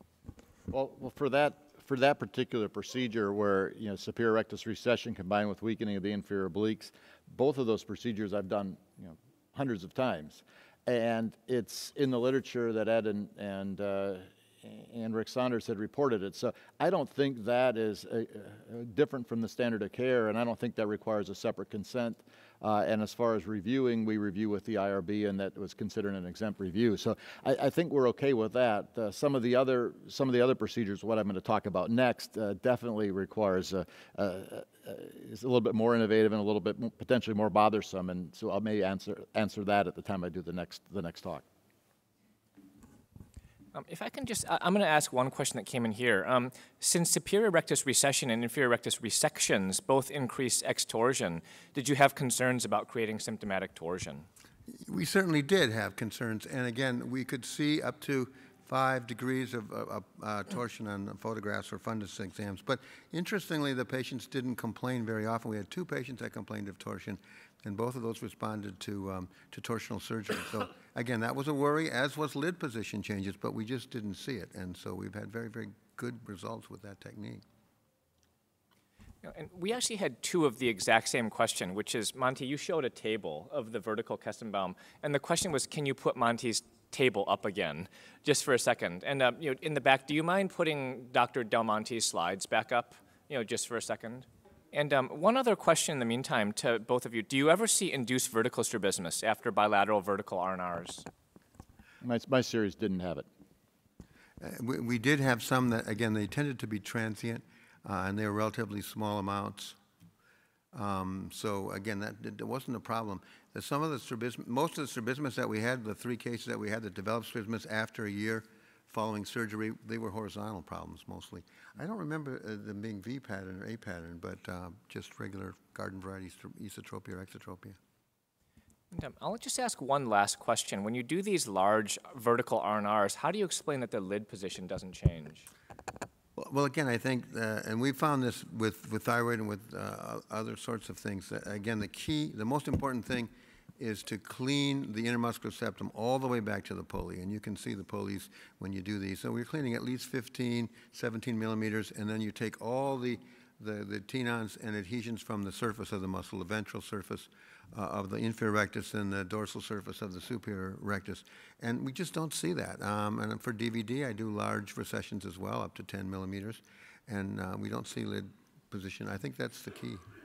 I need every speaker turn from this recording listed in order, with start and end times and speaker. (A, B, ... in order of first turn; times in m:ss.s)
0:00.7-0:41.4 A
0:43.7-0:54.3 B
0:54.9-1:17.4 C
1:19.2-1:41.1 B
1:42.0-1:43.3 A
1:44.4-1:49.8 C
1:50.7-2:07.8 C
2:08.9-2:15.5 B
2:16.4-2:50.0 C